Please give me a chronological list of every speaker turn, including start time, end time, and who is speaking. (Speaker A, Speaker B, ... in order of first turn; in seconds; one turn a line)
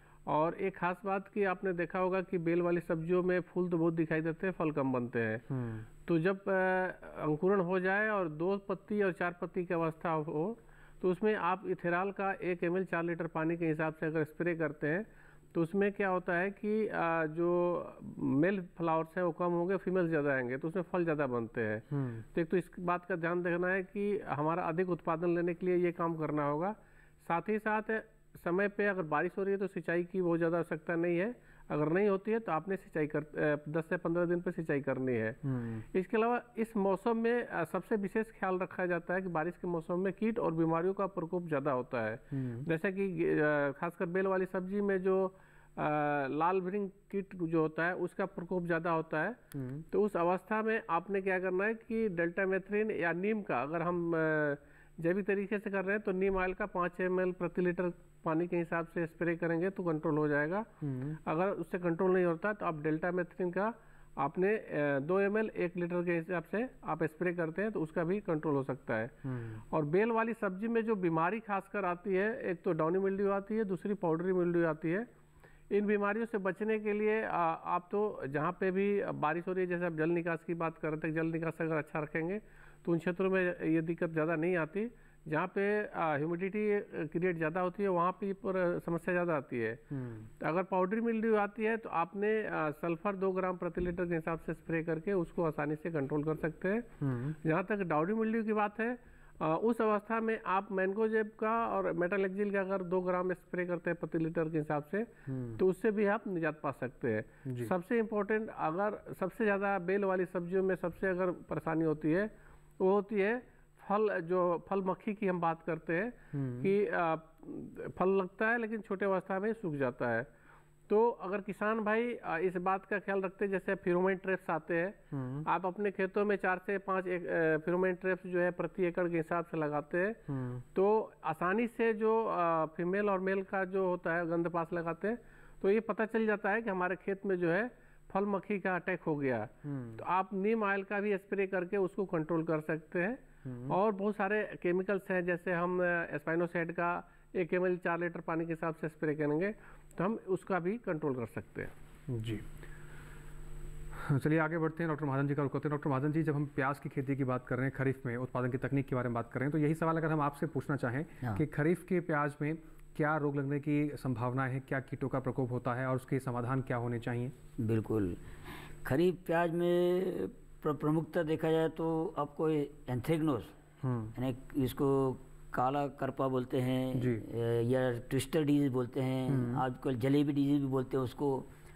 Speaker A: 0.3-5.5
Speaker B: 5.5-5.9
Speaker A: 6.1-35.4
Speaker B: 21.9-22.3
Speaker B: 35.4-35.9
Speaker A: 35.9-49.4
Speaker B: 42.3-42.7
Speaker B: 49.5-49.9
Speaker A: 49.9-60.7
Speaker B: 60.8-61.2
Speaker A: 61.3-69.2
Speaker B: 69.2-69.6
Speaker A: 69.7-75.1
Speaker A: 75.7-89.8
Speaker B: 89.9-90.3
Speaker A: 90.4-96.9
Speaker B: 97.0-97.4
Speaker A: 97.4-120.3
Speaker B: 105.3-105.6
Speaker B: 107.5-107.7
Speaker B: 116.3-116.7
Speaker A: 120.9-130.2
Speaker B: 125.1-125.5
Speaker B: 130.3-130.6
Speaker A: 130.8-151.7
Speaker B: 139.6-140.0
Speaker B: 143.4-143.8
Speaker B: 152.1-152.4
Speaker B: 153.9-167.3
Speaker C: 167.6-168.2
Speaker C: 168.8-173.5
Speaker B: 173.8-174.1
Speaker C: 174.2-181.5
Speaker B: 176.9-177.2
Speaker B: 179.3-179.6